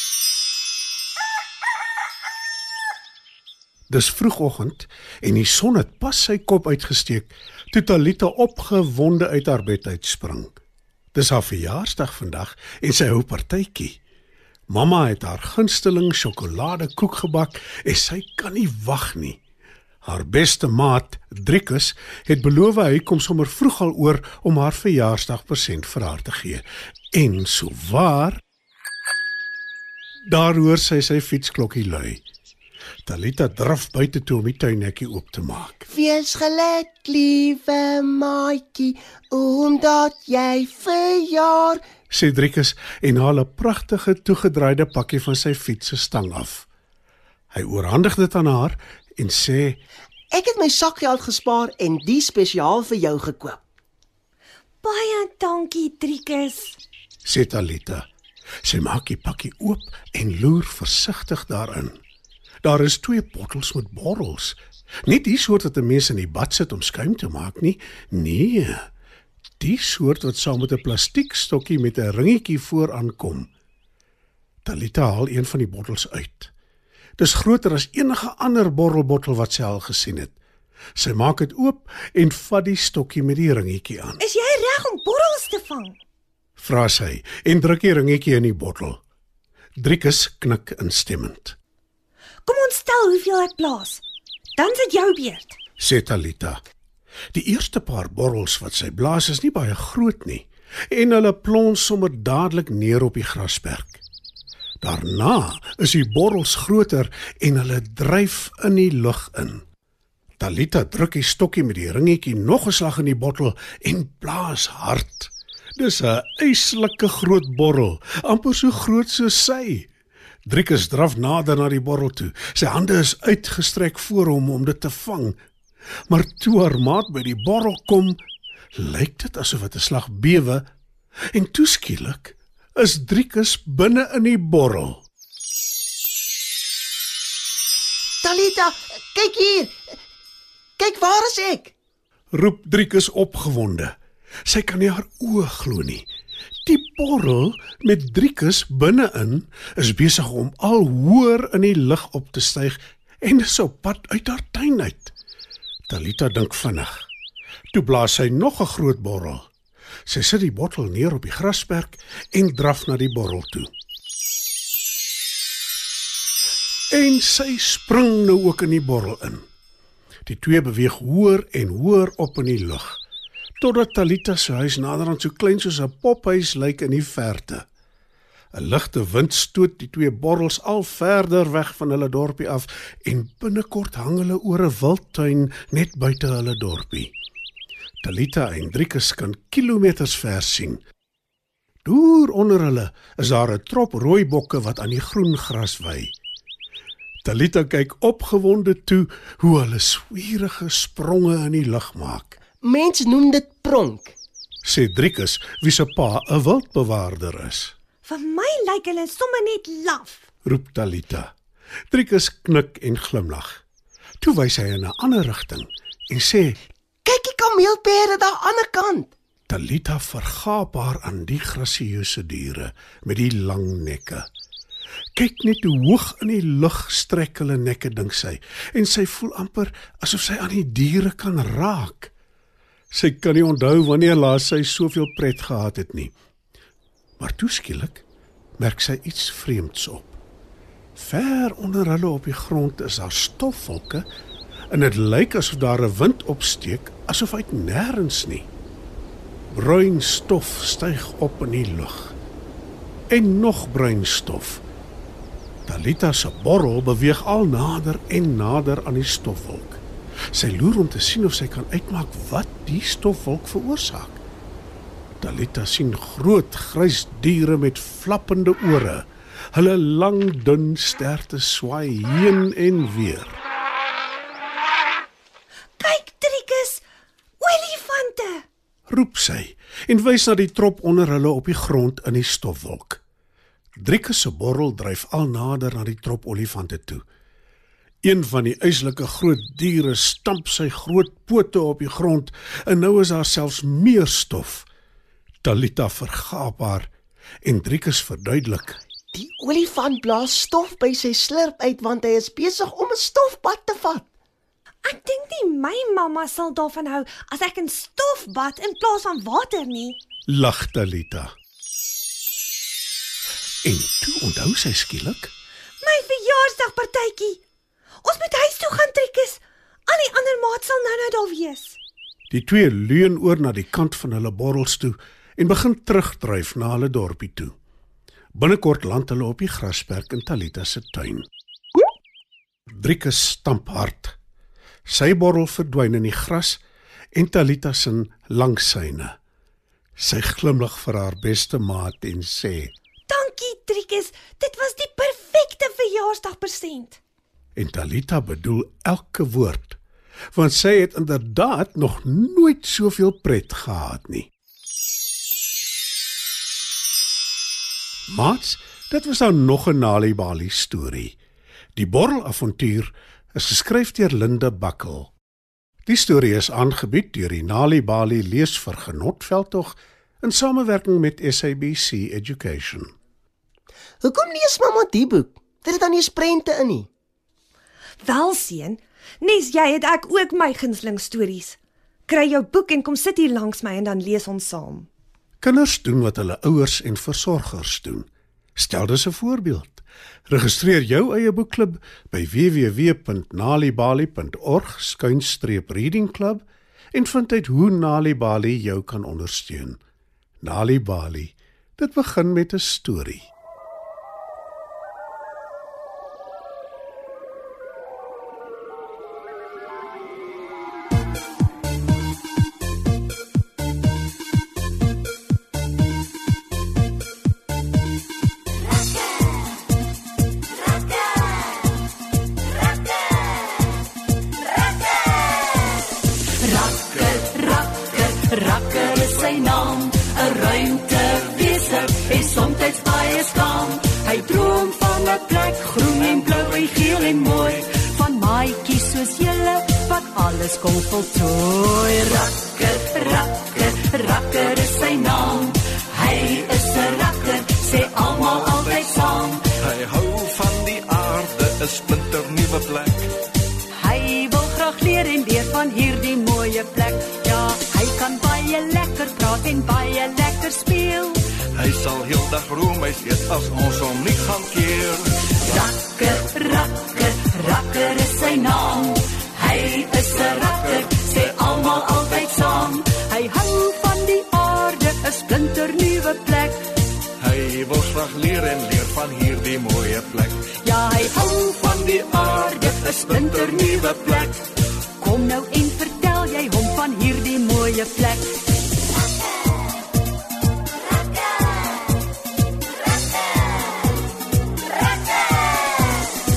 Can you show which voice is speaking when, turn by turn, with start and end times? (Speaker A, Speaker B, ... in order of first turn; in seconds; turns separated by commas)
Speaker A: 3.9-10.5, Speaker A: 11.1-14.0, Speaker A: 14.7-19.4, Speaker A: 20.0-28.4, Speaker A: 30.3-32.2, Speaker A: 33.0-35.8, Speaker B: 35.9-41.8, Speaker A: 42.1-46.7, Speaker A: 47.5-49.8, Speaker B: 50.3-53.6, Speaker C: 54.8-56.8, Speaker A: 57.2-58.1, Speaker A: 58.6-62.0, Speaker A: 62.6-68.9, Speaker A: 69.6-73.5, Speaker A: 74.6-76.5, Speaker A: 77.2-80.3, Speaker A: 81.0-84.2, Speaker C: 84.2-86.0, Speaker A: 86.6-89.0, Speaker A: 89.8-91.6, Speaker C: 92.4-94.0, Speaker C: 94.5-95.6, Speaker A: 95.8-96.6, Speaker A: 97.3-104.0, Speaker A: 104.8-109.6, Speaker A: 110.4-119.9, Speaker A: 120.5-125.4, Speaker A: 126.1-128.2, Speaker A: 128.8-130.7, Speaker A: 131.3-135.0, Speaker B: 138.2-139.8, Speaker B: 140.8-141.7, Speaker A: 142.3-143.9, Speaker A: 144.4-146.1, Speaker A: 146.6-155.1, Speaker A: 155.9-157.1, Speaker A: 157.7-159.5, Speaker A: 160.1-163.7, Speaker A: 166.9-169.4, Speaker A: 170.2-173.0, Speaker A: 173.6-177.7, Speaker A: 178.5-187.1, Speaker A: 188.0-190.8, Speaker A: 191.8-196.1, Speaker A: 197.2-202.4, Speaker B: 202.6-204.1, Speaker A: 204.6-207.7, Speaker C: 208.0-210.2, Speaker A: 210.4-211.3, Speaker A: 211.9-213.6, Speaker A: 214.2-216.6, Speaker B: 217.0-219.1, Speaker A: 219.5-224.3, Speaker A: 225.2-232.1, Speaker A: 232.9-236.1, Speaker A: 237.2-238.0, Speaker A: 238.6-240.2, Speaker A: 240.9-244.0, Speaker A: 244.7-248.5, Speaker A: 249.5-252.2, Speaker A: 253.1-254.6, Speaker A: 255.7-259.8, Speaker A: 260.3-264.2, Speaker A: 265.2-273.4, Speaker C: 275.8-276.8, Speaker C: 277.4-278.4, Speaker A: 278.9-283.0, Speaker A: 283.8-287.0, Speaker A: 288.0-294.7, Speaker A: 295.4-296.9, Speaker A: 297.4-298.8, Speaker B: 299.1-304.1, Speaker C: 304.8-310.0, Speaker A: 310.3-311.3, Speaker A: 313.6-315.3, Speaker C: 315.8-317.4, Speaker C: 318.0-321.8, Speaker A: 322.3-327.5, Speaker A: 328.3-331.3, Speaker A: 332.7-334.1, Speaker A: 334.9-336.6, Speaker A: 337.1-339.1, Speaker A: 340.0-342.7, Speaker C: 343.1-347.0, Speaker A: 347.6-349.8, Speaker A: 350.3-354.3, Speaker A: 358.1-361.1, Speaker A: 361.8-365.1, Speaker A: 365.9-372.9, Speaker B: 374.0-376.9, Speaker C: 378.0-384.9, Speaker A: 385.4-399.8, Speaker A: 400.4-403.3, Speaker D: 426.4-449.5, Speaker E: 449.5-453.1, Speaker D: 453.7-461.3, Speaker E: 461.6-465.3, Speaker D: 465.4-476.6, Speaker E: 477.2-480.6, Speaker D: 480.6-484.4, Speaker E: 483.3-484.0, Speaker D: 485.0-488.5, Speaker D: 495.4-496.1